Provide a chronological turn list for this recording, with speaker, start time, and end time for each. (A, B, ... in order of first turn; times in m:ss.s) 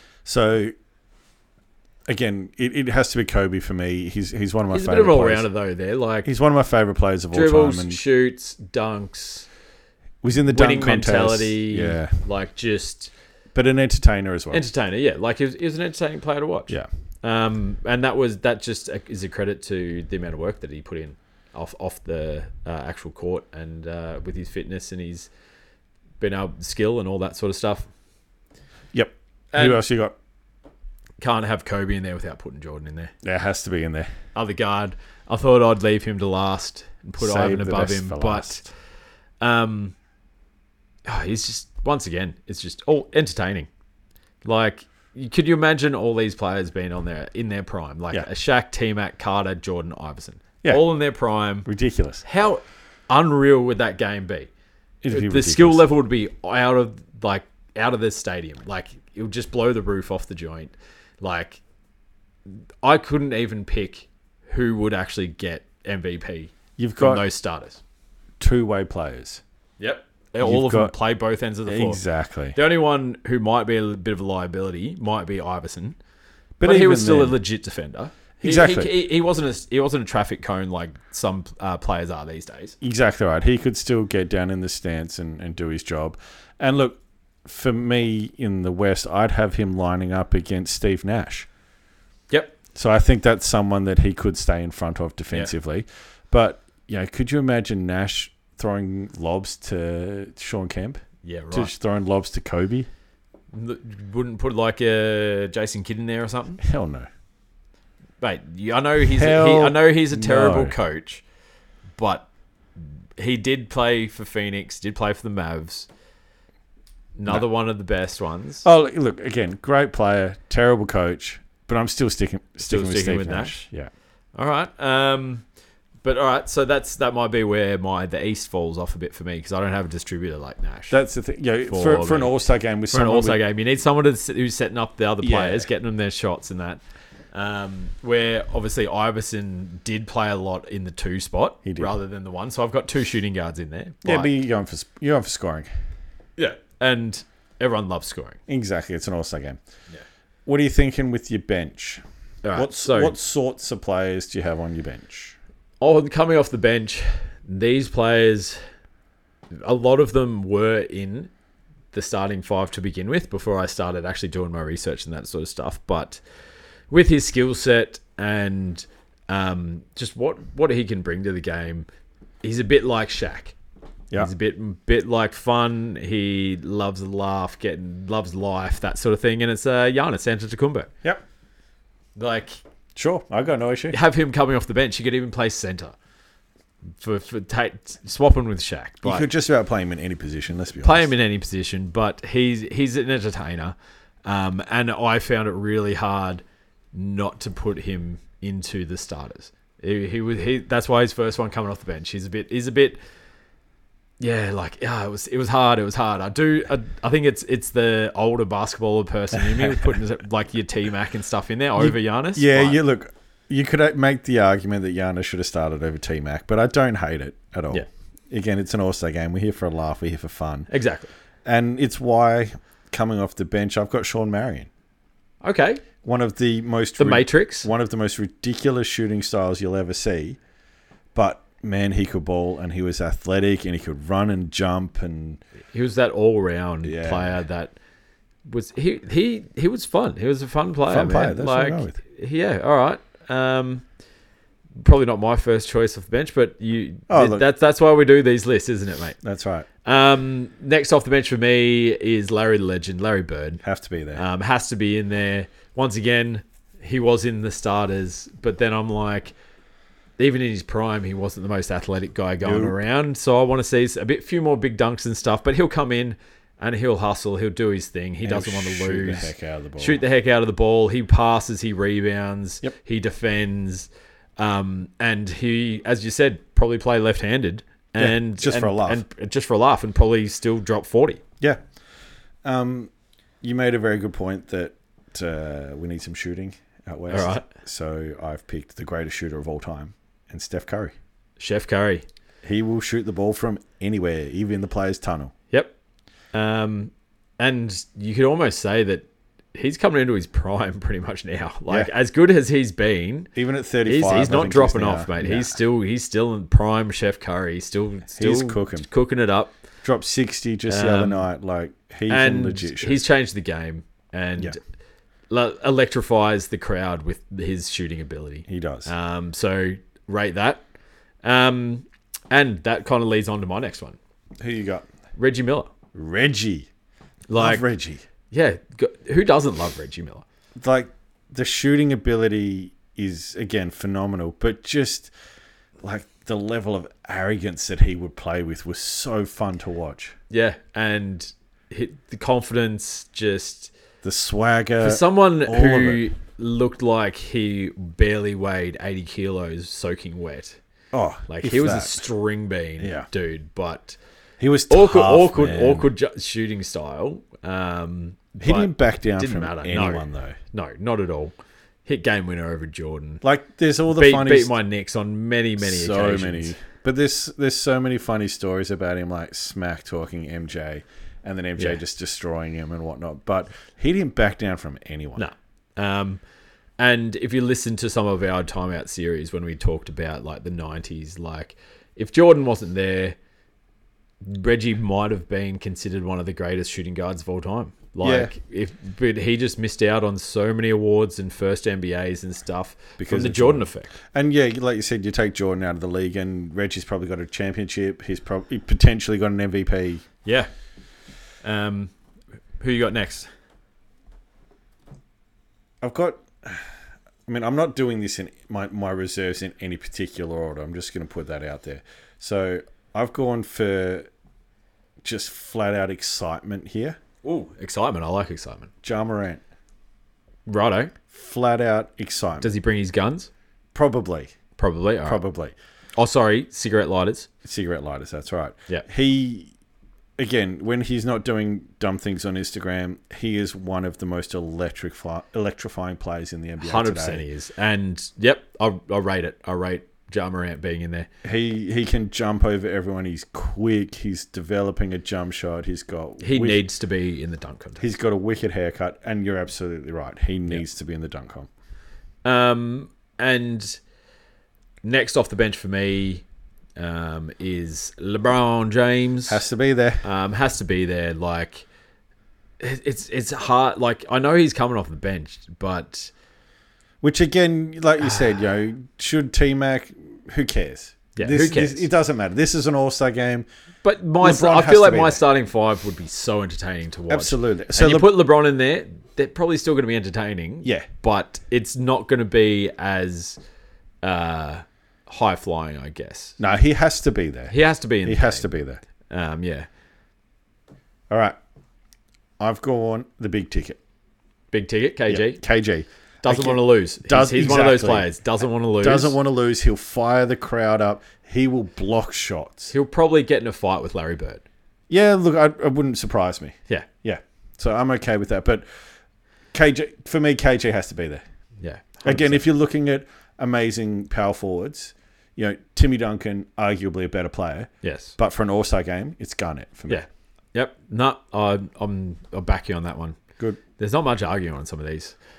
0:00.2-0:00.7 A
0:02.1-0:05.5 A
0:04.7-0:06.3 B
0:06.2-0:08.0 A
0:07.3-0:09.5 B
0:10.2-0:12.2 A
0:10.5-0:13.1 B
0:13.5-0:14.6 A
0:14.5-0:25.3 B
0:26.2-0:27.9 B
0:28.9-0:30.2 A
0:29.5-0:29.8 B
0:31.2-0:33.1 B
0:33.2-0:34.1 A
0:34.4-0:38.7 B
0:37.2-0:38.6 A
0:39.4-0:40.0 B
0:41.1-0:43.7 B
0:44.4-0:51.7 B
0:51.6-0:52.2 A
0:52.2-0:54.5 B
0:55.0-0:55.9 A
0:55.1-1:01.6 B
1:02.8-1:07.8 B
1:06.8-1:07.2 A
1:08.4-1:09.4 A
1:09.8-1:12.0 B
1:10.4-1:11.0 A
1:11.7-1:12.6 A
1:12.6-1:16.0 B
1:16.6-1:17.4 A
1:16.6-1:22.8 B
1:18.4-1:18.9 A
1:22.8-1:31.5 A
1:32.3-1:32.6 B
1:32.8-1:42.9 A
1:41.2-1:41.7 B
1:43.5-1:46.6 B
1:46.6-1:47.1 A
1:48.2-1:51.2 B
1:49.0-1:50.8 A
1:52.0-1:52.3 B
1:52.8-1:55.9 B
1:57.2-1:58.7 B
1:58.6-2:03.9 A
2:02.6-2:03.6 B
2:04.4-2:05.4 B
2:06.0-2:11.0 B
2:10.9-2:13.4 A
2:11.7-2:12.3 B
2:12.9-2:16.8 B
2:15.2-2:15.7 A
2:17.3-2:24.3 B
2:21.6-2:21.9 A
2:24.0-2:25.7 A
2:26.4-2:28.4 B
2:28.5-2:29.6 A
2:30.5-2:32.0 A
2:32.4-2:33.1 B
2:32.5-2:35.4 A
2:35.8-2:38.6 B
2:39.5-2:41.3 B
2:41.9-2:46.2 B
2:46.9-2:51.9 B
2:52.4-2:53.6 B
2:54.2-3:00.9 B
3:02.2-3:02.6 B
3:03.0-3:04.0 A
3:03.9-3:06.0 B
3:07.0-3:09.3 B
3:09.0-3:11.1 A
3:10.8-3:23.0 B
3:24.2-3:32.8 B
3:31.8-3:40.7 A
3:40.7-3:41.1 B
3:41.4-3:44.7 A
3:45.4-3:45.8 B
3:46.0-3:50.4 A
3:47.0-3:47.7 B
3:51.2-3:55.4 A
3:55.7-3:57.8 B
3:56.8-3:57.4 A
3:58.4-4:03.8 B
4:00.9-4:02.0 A
4:04.8-4:09.2 B
4:07.1-4:07.4 A
4:09.2-4:09.7 A
4:09.8-4:13.6 B
4:13.6-4:14.2 A
4:14.2-4:19.3 B
4:20.2-4:41.2 B
4:22.4-4:22.8 A
4:28.2-4:30.0 A
4:38.0-4:39.0 A
4:42.4-4:42.9 A
4:43.4-4:50.9 A
4:47.1-4:47.5 B
4:51.4-4:52.0 B
4:52.4-4:55.3 A
4:56.3-5:03.3 B
5:03.4-5:05.6 A
5:03.8-5:09.5 B
5:08.2-5:08.9 A
5:09.8-5:13.0 A
5:10.7-5:11.3 B
5:12.1-5:14.6 B
5:15.3-5:20.6 B
5:18.5-5:18.9 A
5:21.2-5:24.0 B
5:24.4-5:24.9 A
5:25.2-5:25.7 B
5:25.9-5:26.7 A
5:27.3-5:27.6 B
5:27.4-5:28.0 A
5:28.3-5:30.2 B
5:30.6-5:35.1 A
5:35.8-5:40.2 A
5:40.3-5:43.7 B
5:44.0-5:46.0 A
5:44.8-5:50.6 B
5:50.9-5:52.0 A
5:51.3-5:54.0 B
5:52.8-5:53.1 A
5:54.4-5:55.9 A
5:54.7-6:01.3 B
5:58.4-6:00.4 A
6:01.9-6:03.2 B
6:03.2-6:04.6 A
6:03.9-6:06.6 B
6:05.6-6:15.3 A
6:15.2-6:16.2 B
6:16.8-6:23.2 B
6:24.2-6:33.9 B
6:28.0-6:28.3 A
6:33.0-6:40.0 A
6:41.4-6:41.9 B
6:42.6-6:43.3 B
6:45.8-6:46.7 A
6:47.3-6:54.1 A
6:55.0-6:57.0 A
6:57.2-6:58.7 B
6:58.8-6:59.4 A
7:00.5-7:00.9 B
7:01.1-7:02.5 A
7:02.4-7:03.3 B
7:03.7-7:04.3 A
7:04.6-7:05.2 B
7:05.1-7:05.6 A
7:06.0-7:07.3 B
7:07.4-7:09.5 A
7:10.2-7:17.3 A
7:16.6-7:21.1 B
7:21.2-7:26.6 A
7:26.2-7:27.8 B
7:27.8-7:31.5 A
7:32.2-7:33.8 B
7:34.8-7:36.2 B
7:36.8-7:39.4 B
7:39.3-7:40.0 A
7:40.0-7:41.7 B
7:42.6-7:46.1 B
7:47.0-7:53.5 A
7:51.2-7:51.9 B
7:53.8-8:03.4 B
7:54.2-7:55.2 A
7:57.1-7:58.1 A
8:04.0-8:06.4 B
8:06.4-8:08.8 A
8:07.5-8:08.5 B
8:09.1-8:09.7 B
8:11.1-8:11.4 A
8:12.4-8:13.8 A
8:14.5-8:15.4 B
8:15.1-8:18.1 A
8:16.2-8:19.2 B
8:18.8-8:22.7 A
8:22.7-8:24.4 B
8:24.9-8:28.6 A
8:29.5-8:31.2 A
8:31.6-8:32.4 B
8:32.0-8:40.0 A
8:37.8-8:38.2 B
8:39.9-8:43.2 B
8:43.8-8:45.2 B